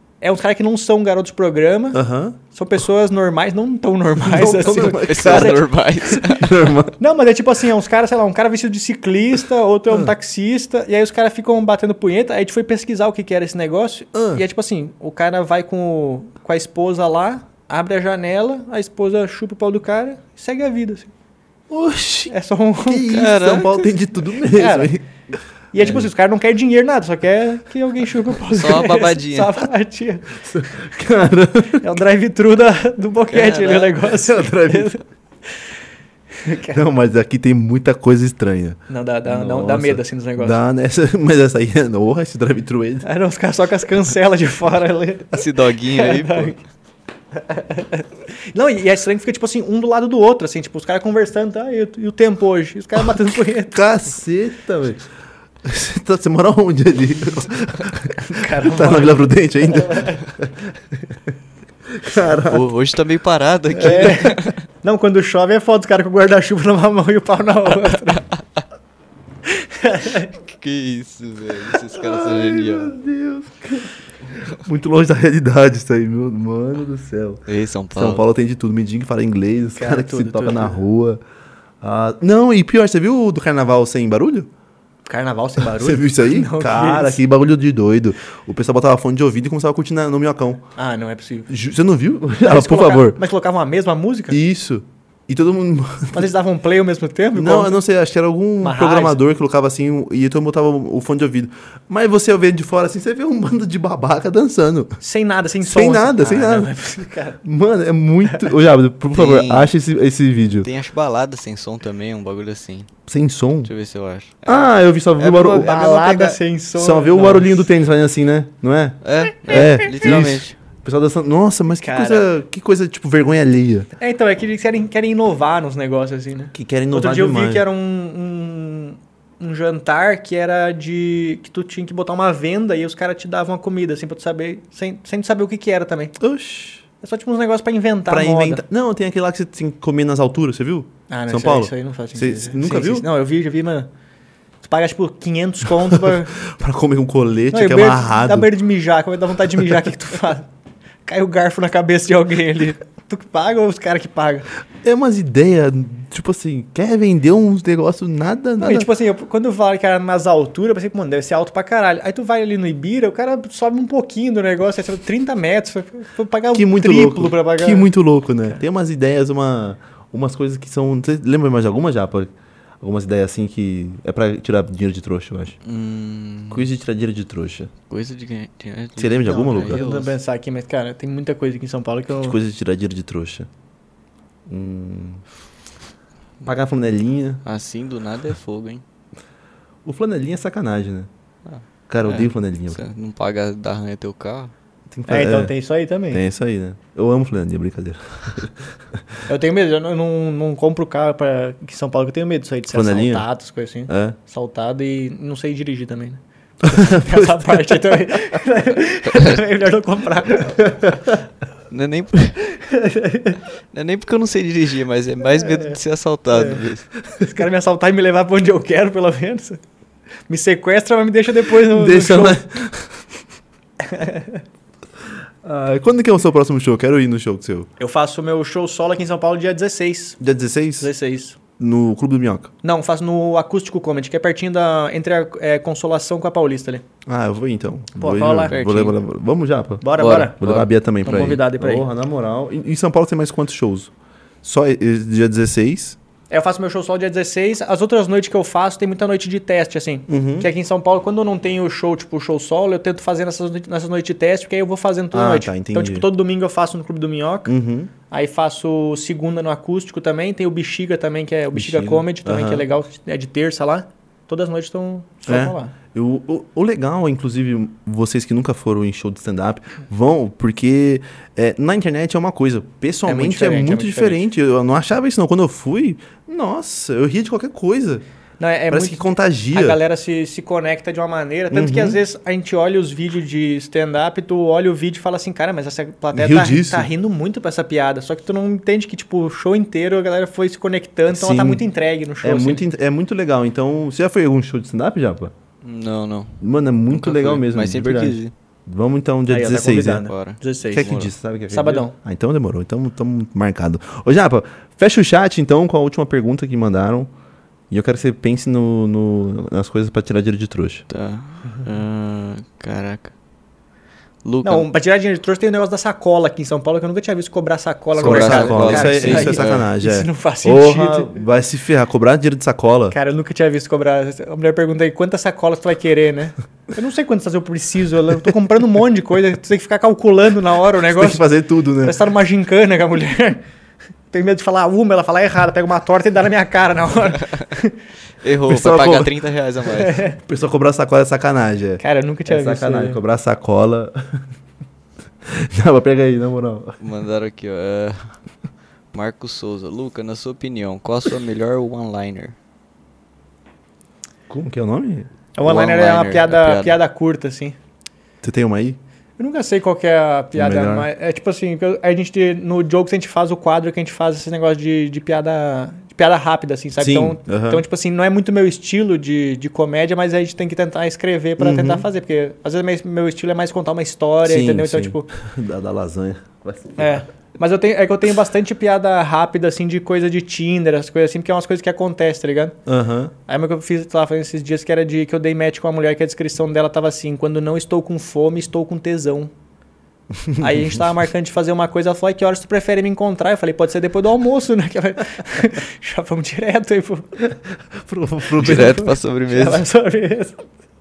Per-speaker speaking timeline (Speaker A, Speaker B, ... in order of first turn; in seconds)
Speaker A: 0.2-5.7, 7.0-21.1, 22.3-23.2, 24.5-24.9, 25.7-30.4, 31.8-35.0, 36.4-36.8, 38.9-40.6, 43.0-46.6, 47.4-53.8, 58.2-60.3, 63.8-68.3, 69.5-70.3, 79.8-80.8, 85.1-87.2, 90.8-91.5, 92.4-94.4, 96.1-97.8, 98.6-99.2, 105.0-107.4, 115.2-117.6, 121.8-122.3, 124.0-136.2, 137.0-138.6, 141.1-143.9, 144.6-146.4, 147.5-150.5, 151.1-154.5, 158.6-167.9, 179.3-182.4, 195.1-196.2, 199.3-210.7, 212.7-213.4, 215.4-215.8, 216.3-216.6, 217.2-219.6, 220.3-222.4, 223.8-224.4, 227.8-230.2, 230.8-231.4, 232.6-236.8, 238.0-238.6, 239.8-240.4, 241.0-241.9, 246.3-257.5, 258.1-265.7, 273.1-274.2, 278.4-292.6, 299.3-301.9, 314.4-321.2, 322.9-331.2, 331.8-333.4, 334.1-337.8, 339.8-340.2, 341.8-343.0, 355.4-357.6, 359.2-375.1, 376.8-382.6, 383.3-389.3, 390.4-397.2, 398.4-400.4
Speaker B: 1.9-2.4, 4.2-7.0, 14.1-14.4, 21.7-25.1, 25.8-26.1, 30.4-31.9, 34.1-35.0, 36.7-43.1, 53.7-55.0, 55.6-61.2, 61.9-62.7, 72.0-77.4, 77.9-81.2, 81.8-84.5, 85.7-90.6, 91.5-93.2, 94.3-96.3, 97.3-105.0, 105.6-106.7, 107.4-110.7, 113.1-113.7, 114.5-123.9, 126.5-127.7, 136.2-136.8, 138.1-143.1, 145.9-148.5, 154.8-158.9, 166.5-175.6, 176.5-177.7, 179.0-179.8, 182.2-183.5, 184.5-185.2, 186.4-187.4, 189.8-191.1, 191.9-192.8, 194.9-195.5, 196.1-199.0, 202.7-203.3, 203.9-204.2, 206.6-208.0, 221.7-223.1, 225.4-227.7, 230.2-230.9, 231.6-232.5, 237.1-243.9, 244.4-246.0, 250.1-250.5, 255.1-256.1, 257.5-257.9, 261.5-262.6, 265.3-278.0, 278.7-279.8, 281.5-282.0, 286.1-286.9, 291.1-291.6, 292.2-295.3, 296.4-300.1, 300.7-307.1, 307.7-310.9, 318.0-322.9, 330.9-332.0, 338.5-339.1, 340.2-344.2, 345.3-346.8, 354.3-355.1, 358.2-358.8, 360.4-360.9, 366.8-367.6, 371.4-371.9, 374.2-377.0, 382.7-383.1, 390.2-390.8, 397.2-398.9
Speaker C: 4.6-6.7, 23.1-23.8, 28.5-29.5, 33.3-34.0, 45.3-46.6, 62.5-64.6, 70.4-73.0, 77.5-78.2, 109.1-109.7, 110.6-112.9, 113.7-114.7, 119.0-120.5, 175.7-176.7, 177.9-180.1, 187.4-188.8, 191.5-194.5, 211.7-212.5, 213.7-216.9, 238.5-238.9, 240.0-241.2, 295.6-298.3, 300.1-301.1, 310.9-313.1, 314.2-314.7, 318.0-319.7, 338.2-340.1, 346.8-348.2, 348.9-352.4, 355.4-356.8, 398.4-399.6